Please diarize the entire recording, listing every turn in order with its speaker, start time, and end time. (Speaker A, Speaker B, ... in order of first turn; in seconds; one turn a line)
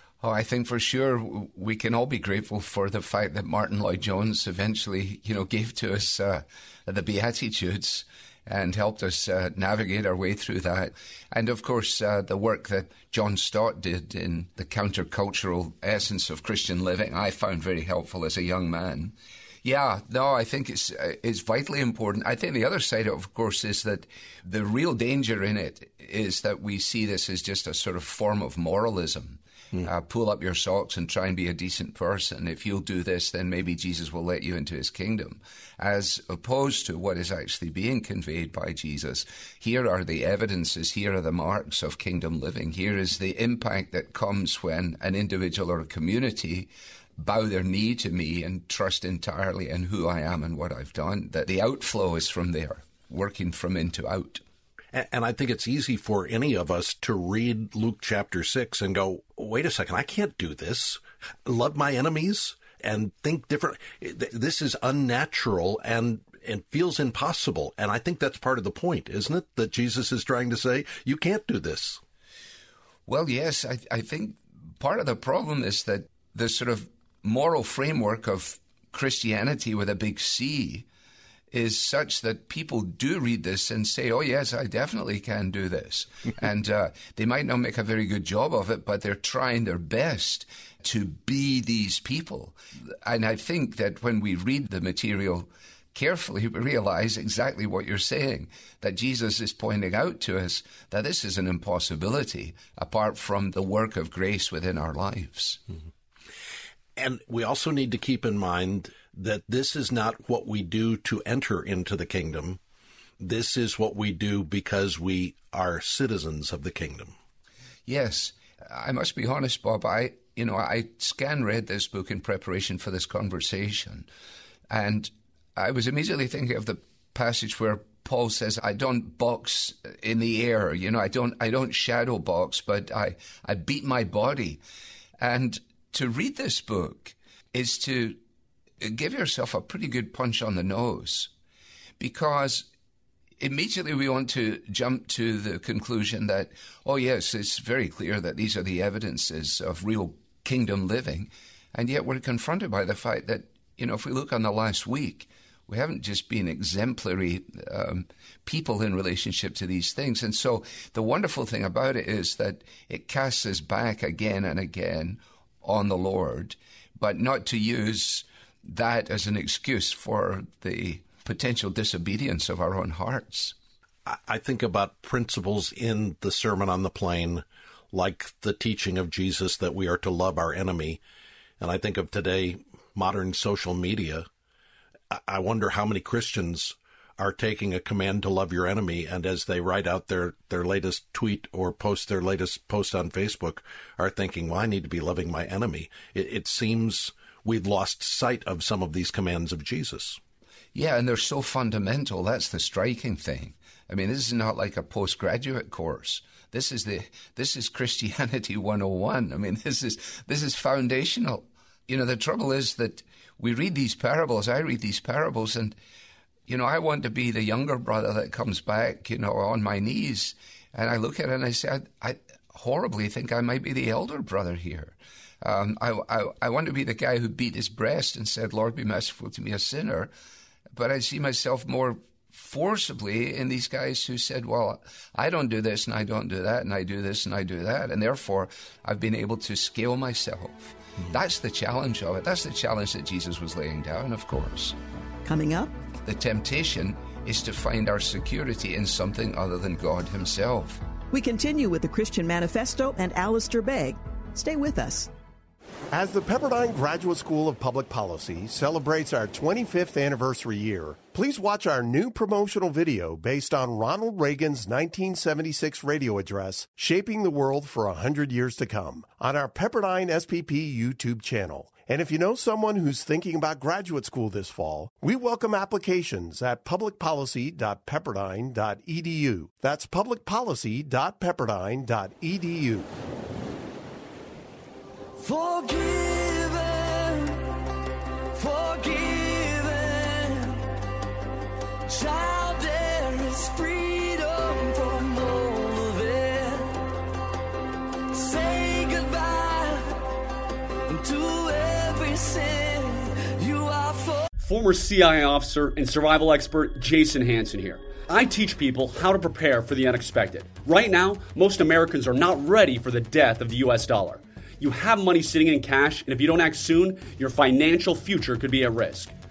Speaker A: 0.2-54.4
Speaker B: 54.9-72.0
Speaker A: 73.1-80.9
Speaker A: 81.5-105.6
Speaker B: 107.0-112.6
Speaker B: 113.2-117.1
Speaker A: 117.9-124.1
Speaker A: 124.7-134.6
Speaker A: 135.2-138.2
Speaker A: 138.8-141.3
Speaker A: 142.0-142.7
Speaker A: 143.4-173.5
Speaker B: 174.1-181.0
Speaker B: 181.6-184.3
Speaker B: 185.1-200.2
Speaker A: 200.8-215.8
Speaker A: 216.5-230.1
Speaker A: 230.7-244.8
Speaker C: 245.2-245.7
Speaker A: 246.0-250.8
Speaker C: 251.1-255.1
Speaker D: 255.9-282.9
Speaker E: 285.2-287.7
Speaker E: 288.3-290.7
Speaker E: 291.9-296.9
Speaker E: 298.1-300.1
Speaker E: 300.9-304.3
Speaker F: 304.4-319.1